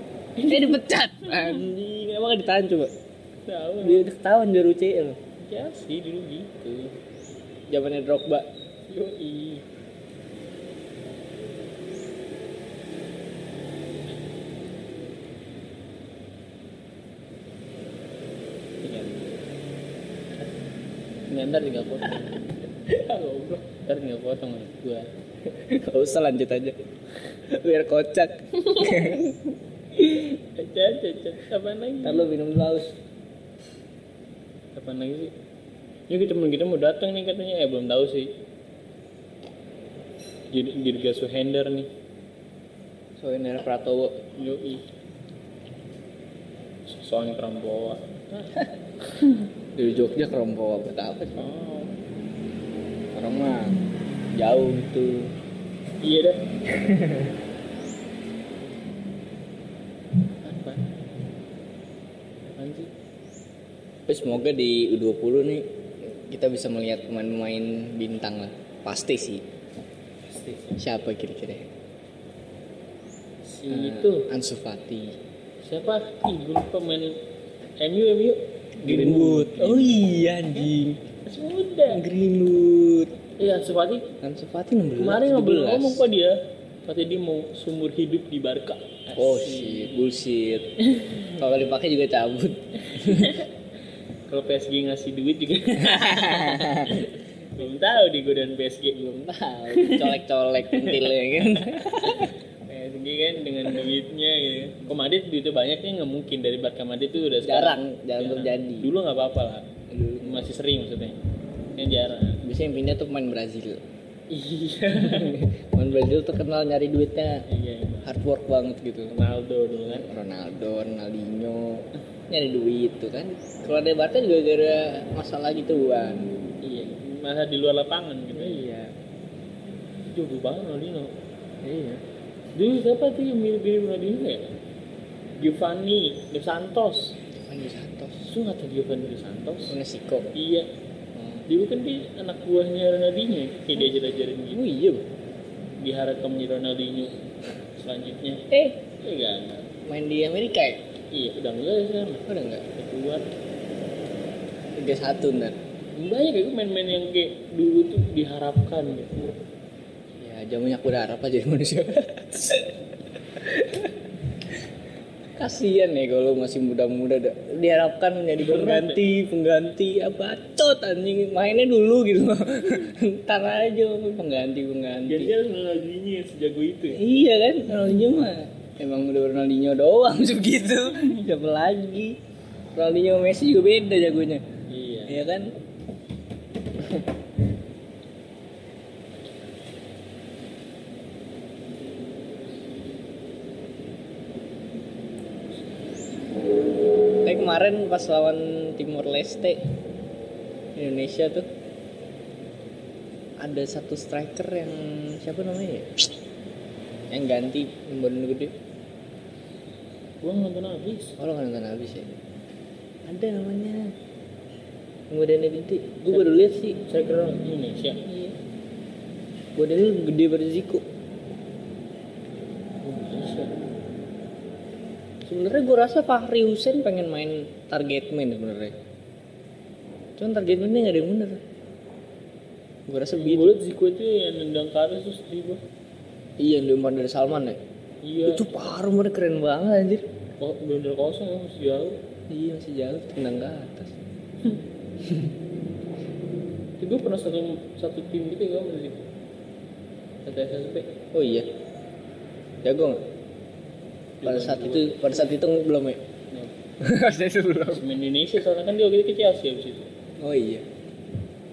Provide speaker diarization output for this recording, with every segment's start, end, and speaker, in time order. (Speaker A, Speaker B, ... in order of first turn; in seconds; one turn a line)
Speaker A: 0.4-1.7
Speaker B: 0.5-2.9
Speaker A: 3.5-4.1
Speaker B: 3.8-5.2
Speaker A: 5.4-6.9
Speaker B: 7.7-8.5
Speaker A: 8.9-9.6
Speaker A: 18.8-19.4
Speaker A: 21.3-25.1
Speaker B: 25.4-26.8
Speaker B: 27.5-30.4
Speaker A: 28.6-29.2
Speaker A: 30.6-32.3
Speaker B: 32.0-33.0
Speaker A: 34.8-35.3
Speaker A: 36.1-38.3
Speaker A: 40.5-41.9
Speaker B: 43.2-44.3
Speaker A: 44.3-44.8
Speaker A: 46.9-49.5
Speaker B: 49.8-51.5
Speaker A: 51.3-51.9
Speaker B: 53.1-53.8
Speaker B: 54.4-55.3
Speaker A: 56.0-56.4
Speaker B: 56.7-57.4
Speaker A: 60.4-60.8
Speaker A: 62.5-62.9
Speaker B: 64.1-69.5
Speaker A: 70.3-70.8
Speaker B: 70.8-71.7
Speaker A: 73.5-74.3
Speaker B: 73.7-75.2
Speaker A: 75.6-77.2
Speaker A: 77.8-80.0
Speaker B: 78.8-81.0
Speaker A: 81.2-82.0
Speaker B: 81.9-83.2
Speaker A: 83.4-84.1
Speaker B: 84.2-86.1
Speaker A: 85.0-90.1
Speaker B: 89.1-90.7
Speaker A: 90.8-91.4
Speaker B: 91.3-93.4
Speaker A: 92.8-93.5
Speaker A: 94.3-99.0
Speaker B: 95.8-97.1
Speaker B: 98.9-102.3
Speaker A: 99.7-100.2
Speaker A: 100.7-101.2
Speaker A: 102.0-111.2
Speaker B: 107.4-108.9
Speaker B: 109.9-110.5
Speaker A: 111.8-112.4
Speaker B: 112.4-113.8
Speaker A: 114.3-115.4
Speaker B: 115.0-117.4
Speaker A: 117.5-118.1
Speaker B: 118.0-119.1
Speaker A: 119.1-120.1
Speaker B: 119.9-126.3
Speaker A: 126.6-128.7
Speaker B: 128.3-128.9
Speaker A: 130.1-131.1
Speaker B: 131.6-132.0
Speaker A: 132.6-134.4
Speaker A: 135.4-137.2
Speaker B: 137.3-138.3
Speaker A: 138.2-139.8
Speaker B: 139.7-140.3
Speaker A: 140.3-140.7
Speaker B: 141.1-141.4
Speaker A: 141.4-144.6
Speaker B: 144.5-145.1
Speaker A: 145.8-147.2
Speaker A: 147.8-148.4
Speaker B: 148.5-148.8
Speaker A: 149.0-149.7
Speaker B: 149.8-150.8
Speaker A: 151.1-153.3
Speaker B: 152.2-152.7
Speaker B: 154.8-155.6
Speaker A: 155.9-159.3
Speaker B: 160.2-164.0
Speaker B: 165.4-175.3
Speaker A: 168.4-169.0
Speaker A: 175.1-177.1
Speaker B: 176.9-182.2
Speaker B: 182.7-184.4
Speaker A: 184.7-185.3
Speaker B: 185.1-185.5
Speaker B: 197.2-199.7
Speaker B: 200.8-201.5
Speaker B: 203.4-206.1
Speaker B: 207.1-208.5
Speaker A: 210.2-211.2
Speaker B: 211.2-212.2
Speaker B: 213.0-213.9
Speaker B: 215.1-216.8
Speaker A: 216.1-218.0
Speaker B: 218.0-218.3
Speaker B: 219.6-220.8
Speaker A: 222.8-223.5
Speaker B: 225.2-228.7
Speaker B: 230.2-231.4
Speaker B: 232.9-233.5
Speaker A: 233.1-235.6
Speaker B: 236.4-237.6
Speaker A: 238.0-238.5
Speaker B: 238.2-240.1
Speaker A: 240.4-242.0
Speaker B: 242.3-243.9
Speaker B: 245.0-245.3
Speaker A: 246.8-249.1
Speaker A: 250.2-250.9
Speaker B: 251.1-251.5
Speaker B: 252.6-253.0
Speaker A: 254.2-255.4
Speaker B: 254.2-256.0
Speaker B: 256.8-257.8
Speaker A: 257.7-259.9
Speaker B: 260.2-260.6